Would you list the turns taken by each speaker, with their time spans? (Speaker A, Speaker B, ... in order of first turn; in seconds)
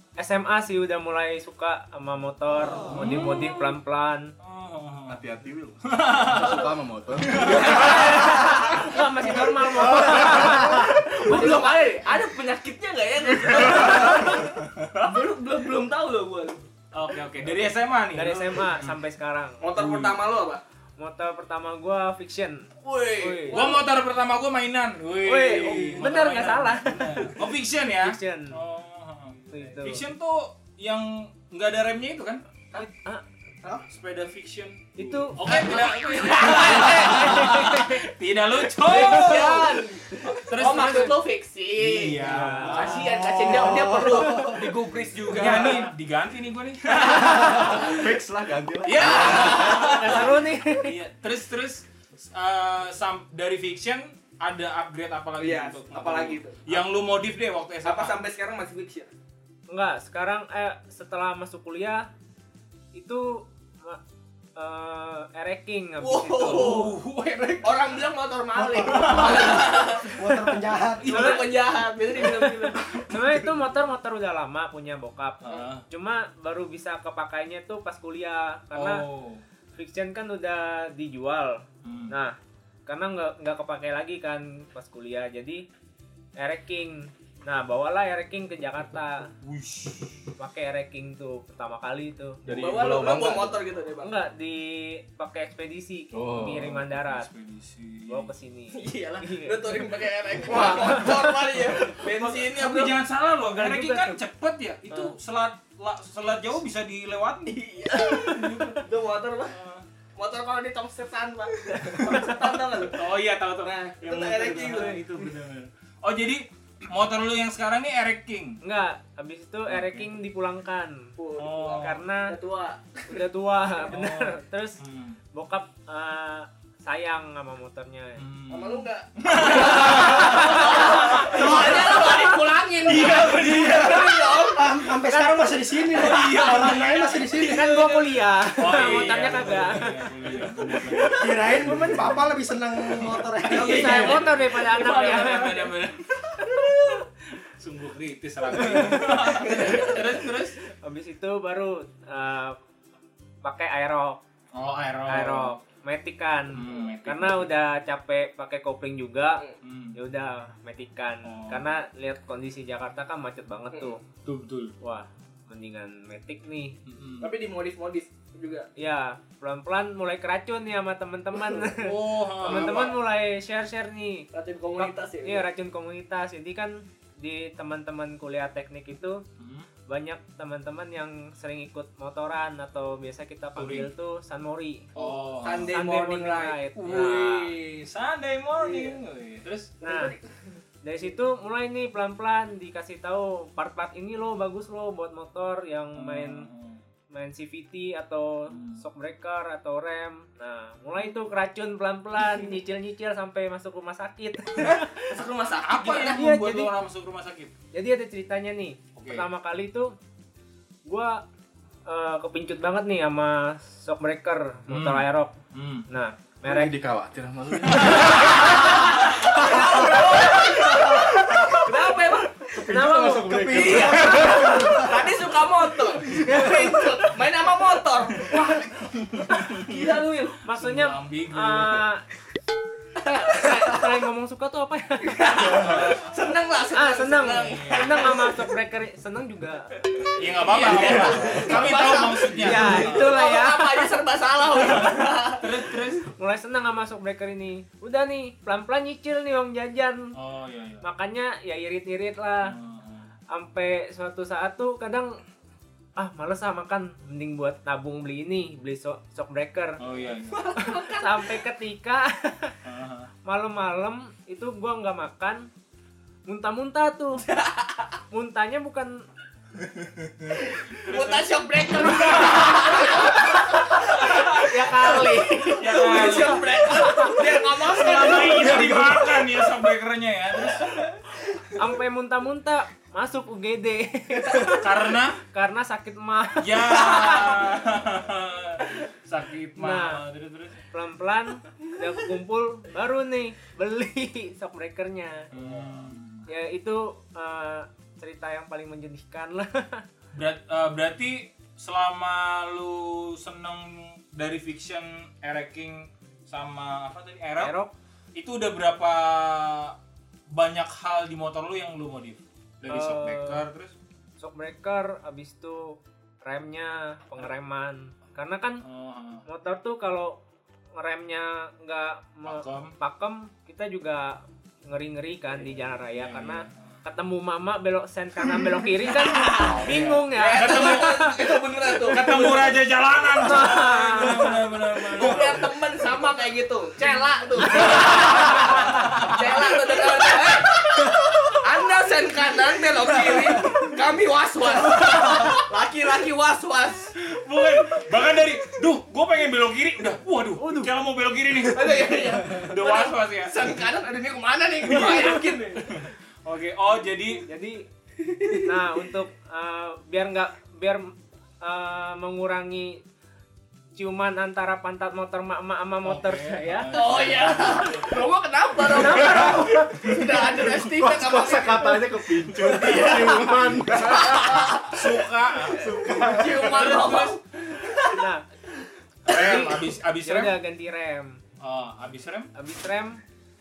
Speaker A: 0.2-4.3, 7.7-11.8, 18.1-19.6, 21.0-23.8, 25.2-27.4, 28.0-28.6, 29.5-30.1, 32.8-33.2, 35.0-38.1, 38.9-39.7, 42.2-43.0, 49.4-51.0, 59.7-62.1, 62.9-64.0, 64.6-66.9, 71.1-71.4, 73.1-79.0, 79.8-82.4, 82.9-85.7, 86.4-89.3, 90.4-92.4, 94.0-97.3, 98.1-99.9, 100.4-102.3, 103.4-104.2, 108.2-108.7, 118.6-121.1, 121.7-122.3, 123.1-124.8, 125.3-128.2, 129.9-132.3, 135.1-135.8, 137.4-141.1, 143.5-145.7, 148.6-149.6, 150.8-152.6, 153.4-154.2, 155.1-159.4, 159.9-164.0, 164.8-166.8, 168.8-179.2, 179.9-184.9, 185.7-187.5, 189.8-190.2, 190.8-196.5, 197.1-205.0, 206.1-206.7, 207.7-209.9, 210.9-211.2, 211.9-215.3, 215.9-216.8, 222.6-224.0, 226.2-226.8, 230.4-232.0, 233.0-235.4, 236.7-239.7, 242.4-243.9, 246.1-250.2, 250.8-252.6, 253.3-255.2, 256.0-259.8, 260.6-262.6, 263.2-265.5, 266.3-267.3, 268.1-269.1, 273.0-277.2, 281.5-284.7, 285.2-287.4, 289.6-290.0, 290.7-295.8, 296.3-299.9, 307.4-307.7, 312.7-313.4, 314.2-318.6, 319.3-320.2, 320.8-331.3, 331.9-332.5, 333.2-334.5, 337.9-338.4, 350.4-350.7, 357.2-357.6, 358.3-362.8, 363.8-366.8, 368.7-370.0, 377.9-378.2, 379.1-381.2, 382.3-383.0
Speaker B: 2.9-3.6, 4.4-5.2, 5.9-6.7, 7.3-7.9, 13.7-14.2, 14.8-15.1, 16.9-19.0, 19.8-20.2, 23.5-32.4, 33.9-41.2, 41.8-43.9, 45.1-47.9, 48.9-58.1, 66.5-67.9, 68.9-69.6, 71.0-71.5, 72.9-73.3, 75.4-75.8, 78.7-79.4, 81.8-82.1, 89.4-90.3, 96.5-98.3, 102.0-107.6, 108.2-108.8, 109.5-109.8, 112.0-118.6, 119.7-120.1, 121.4-122.0, 123.9-125.2, 128.2-134.3, 135.8-141.3, 143.4-150.6, 154.5-155.6, 156.5-157.5, 159.6-160.0, 161.2-161.7, 164.2-164.7, 166.9-167.3, 171.8-172.9, 179.4-179.7, 183.6-183.9, 185.0-185.8, 186.8-189.7, 196.0-196.8, 198.5-198.8, 205.5-207.5, 209.0-209.2, 214.7-215.8, 217.7-218.4, 229.0-231.8, 235.6-236.2, 237.5-238.1, 240.2-243.2, 244.6-246.0, 250.2-250.8, 252.4-253.1, 259.8-260.5, 262.6-263.1, 269.8-272.7, 275.6-280.9, 284.5-285.2, 286.4-290.6, 295.3-296.3, 300.1-307.5, 308.2-309.8, 310.3-313.7, 318.6-319.2, 322.3-322.7, 325.9-326.7, 329.3-331.2, 331.8-335.6, 337.5-337.9, 338.8-339.2, 347.0-353.5, 354.6-357.2, 365.8-367.9, 374.7-375.7, 376.4-377.2, 379.1-380.4, 381.4-382.3
Speaker C: 5.1-8.4, 47.6-50.0, 92.4-93.6, 96.1-96.7, 216.4-224.5, 235.5-235.9, 240.8-241.6, 369.0-369.3, 369.9-374.6, 375.6-376.9
Speaker D: 7.5-8.9, 9.9-16.6, 19.6-20.6, 22.8-23.8, 35.4-37.7, 38.8-45.9, 47.0-48.1, 48.8-50.1, 55.4-56.8, 57.8-59.1, 66.0-66.9, 67.6-70.3, 71.1-73.1, 92.5-94.2, 98.7-103.0, 107.5-109.6, 110.2-113.1, 113.6-115.2, 121.2-123.2, 128.5-134.8, 143.5-145.7, 149.1-150.2, 167.2-168.7, 172.4-173.0, 174.3-175.5, 185.0-186.6, 188.6-189.0, 189.8-190.6, 204.6-206.2, 219.0-222.7, 223.5-228.7, 229.3-230.4, 233.3-233.8, 235.1-238.5, 239.9-245.5, 260.3-261.4, 267.3-267.9, 270.4-279.1, 280.7-280.9, 286.9-287.4, 329.1-332.6, 334.9-346.9, 351.5-355.6, 358.0-358.6, 366.7-374.9, 375.4-378.0
Speaker E: 43.0-44.7, 68.6-71.3, 134.4-137.7, 141.2-144.1, 220.8-221.6, 222.7-225.2